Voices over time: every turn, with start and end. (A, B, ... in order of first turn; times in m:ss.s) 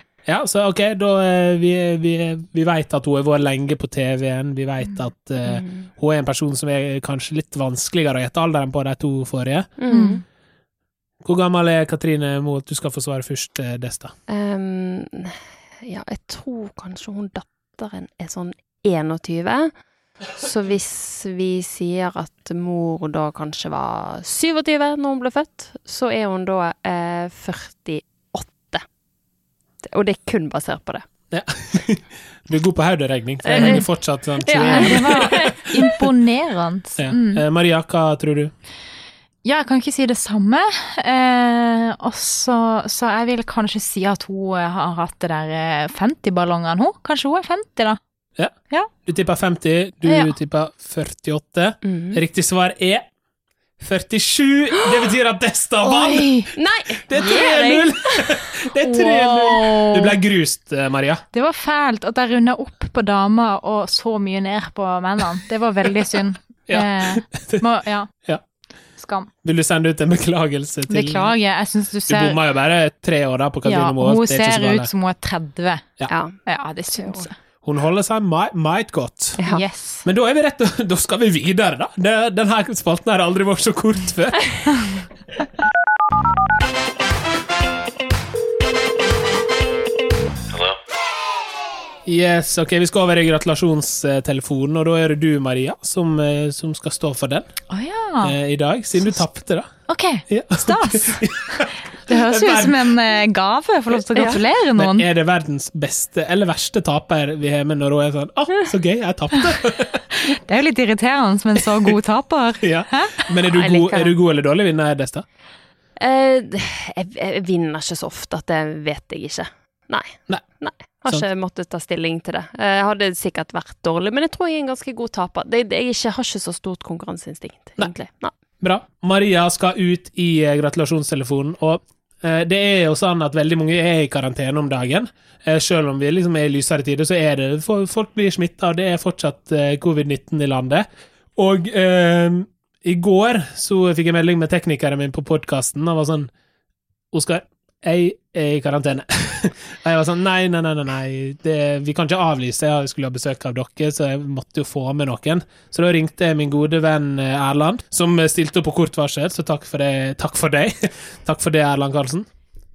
0:00.2-0:09.8 A
0:05.4-0:05.9 B
0:09.8-0:10.2 B
0:09.9-0:10.2 C
0:11.2-0:14.1 A
0:14.3-0:19.8 B
0:20.3-0:28.8 B
0:29.8-0:31.1 B
0:31.3-0:35.9 A
0:33.4-0:33.9 B
0:33.5-0:33.8 C
0:34.4-0:35.5 B
0:34.6-0:37.4 C
0:37.0-0:38.5 A
0:39.4-0:48.0 C
0:48.4-0:53.0 A
0:50.0-0:50.3 C
0:51.8-0:52.2 B
0:53.8-1:01.2 A
0:55.8-0:56.5 C
0:56.6-0:58.4 B
0:58.8-1:00.2 C
1:01.3-1:08.1 C
1:06.7-1:07.6 A
1:09.0-1:09.3 C
1:09.4-1:11.3 A
1:10.9-1:12.4 C
1:12.1-1:14.9 A
1:13.6-1:15.8 C
1:16.1-1:16.4 B
1:16.4-1:17.3 C
1:17.0-1:17.2 B
1:17.6-1:19.4 A
1:19.4-1:20.0 C
1:20.0-1:24.8 A
1:32.0-1:37.5 A
1:37.7-1:38.4 C
1:38.2-1:39.7 A
1:39.9-1:45.0 C
1:40.3-1:43.0 A
1:44.1-1:44.4 B
1:44.8-1:50.0 A
1:50.1-1:53.2 C
1:52.6-1:55.2 A
1:53.5-1:54.1 B
1:56.0-2:08.3 B
2:08.6-2:20.8 A
2:21.4-2:26.3 A
2:27.1-2:42.3 A